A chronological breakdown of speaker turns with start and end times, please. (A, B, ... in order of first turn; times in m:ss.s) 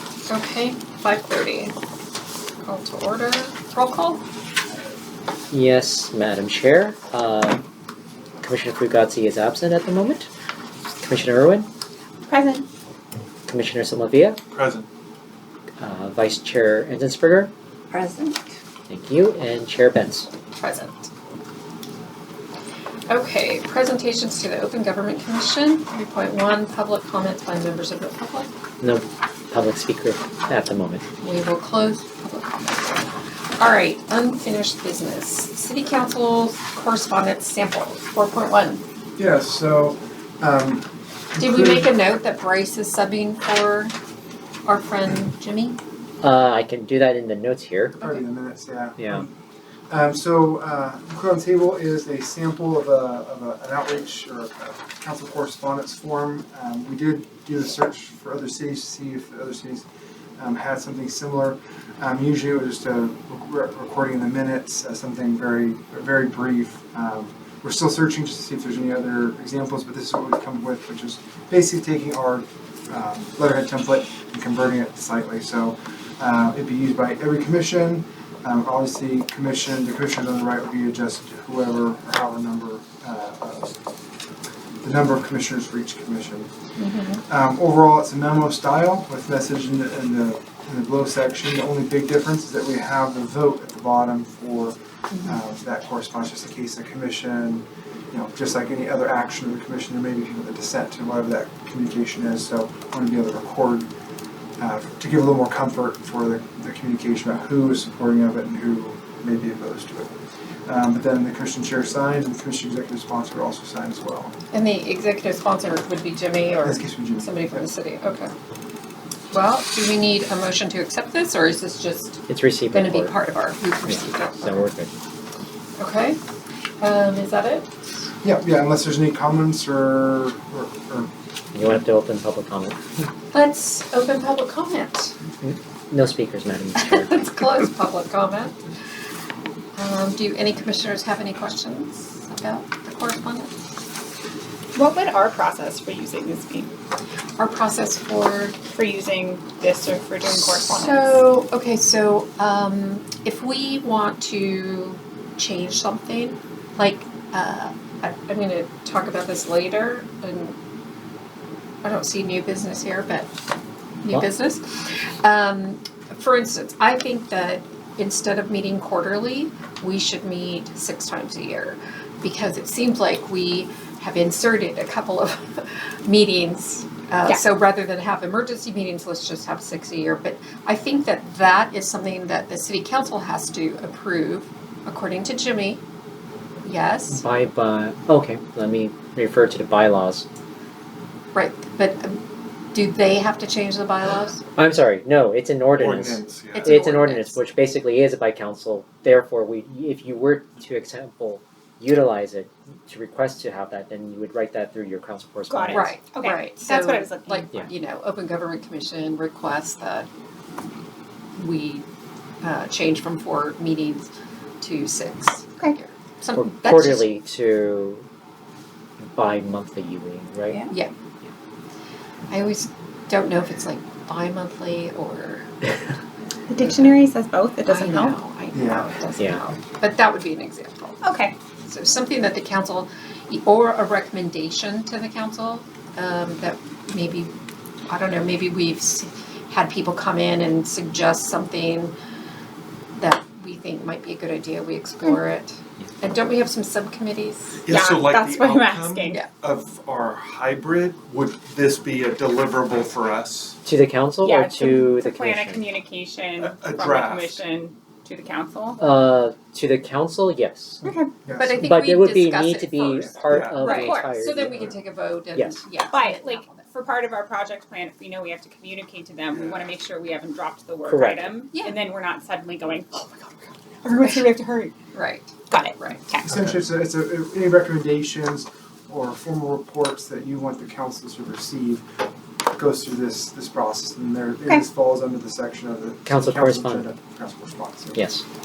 0:00.2-0:01.7 A
0:02.6-0:04.2 A
0:05.5-0:07.6 B
0:08.4-0:10.3 B
0:11.0-0:11.7 B
0:12.3-0:12.6 C
0:13.5-0:14.4 B
0:14.5-0:14.9 D
0:15.8-0:17.5 B
0:17.9-0:18.4 C
0:18.9-0:20.3 B
0:20.6-0:21.1 A
0:23.1-0:28.5 A
0:28.8-0:31.0 B
0:31.2-0:33.1 A
0:33.6-0:38.8 A
0:39.2-0:41.9 E
0:41.4-0:43.9 A
0:44.6-0:45.8 A
0:46.2-0:48.0 B
0:48.0-0:49.3 E
0:49.0-0:49.3 B
0:49.9-0:59.8 E
1:00.4-1:23.7 E
1:24.8-1:26.5 E
1:26.8-1:27.2 A
1:27.2-1:43.9 E
1:44.6-1:50.1 E
1:50.6-1:54.3 E
1:54.5-1:58.3 A
1:56.6-1:57.7 E
1:59.3-2:04.7 A
2:02.3-2:03.2 B
2:03.8-2:04.9 B
2:05.8-2:06.2 A
2:06.8-2:07.7 A
2:08.2-2:11.1 E
2:11.5-2:12.8 B
2:13.3-2:15.1 A
2:15.4-2:17.2 B
2:16.8-2:18.6 A
2:19.8-2:23.5 A
2:24.7-2:26.7 C
2:27.4-2:28.6 A
2:28.7-2:31.2 C
2:30.3-2:40.6 A
2:41.8-2:43.3 A
2:44.0-3:05.8 A
3:06.6-3:07.2 A
3:07.1-3:10.2 B
3:11.3-3:12.2 A
3:12.7-3:14.4 A
3:14.6-3:26.0 B
3:15.8-3:16.7 D
3:16.5-3:17.4 A
3:25.5-3:27.5 C
3:25.7-3:30.1 A
3:31.4-3:31.8 A
3:32.4-3:34.1 A
3:34.6-3:37.1 A
3:36.3-3:38.0 B
3:39.0-3:40.6 B
3:40.7-3:40.9 A
3:42.3-3:45.7 A
3:46.5-3:48.2 C
3:46.6-3:47.0 A
3:47.6-3:51.0 A
3:48.5-3:48.9 E
3:51.0-3:51.3 C
3:51.7-3:57.3 A
3:57.9-4:01.9 A
4:03.0-4:07.6 A
4:07.6-4:13.6 D
4:07.7-4:09.2 C
4:13.6-4:15.6 B
4:14.2-4:18.8 C
4:16.4-4:17.4 D
4:18.8-4:20.8 B
4:20.8-4:21.1 C
4:21.2-4:21.6 E
4:21.4-4:26.6 A
4:21.6-4:24.7 B
4:23.3-4:23.9 D
4:23.6-4:24.2 C
4:25.3-4:25.6 B
4:25.9-4:34.7 C
4:29.3-4:29.8 D
4:30.8-4:31.4 B
4:34.9-4:36.0 A
4:35.5-4:36.3 C
4:36.2-4:41.8 E
4:42.5-4:48.0 E
4:46.1-4:46.9 B
4:47.9-4:48.2 B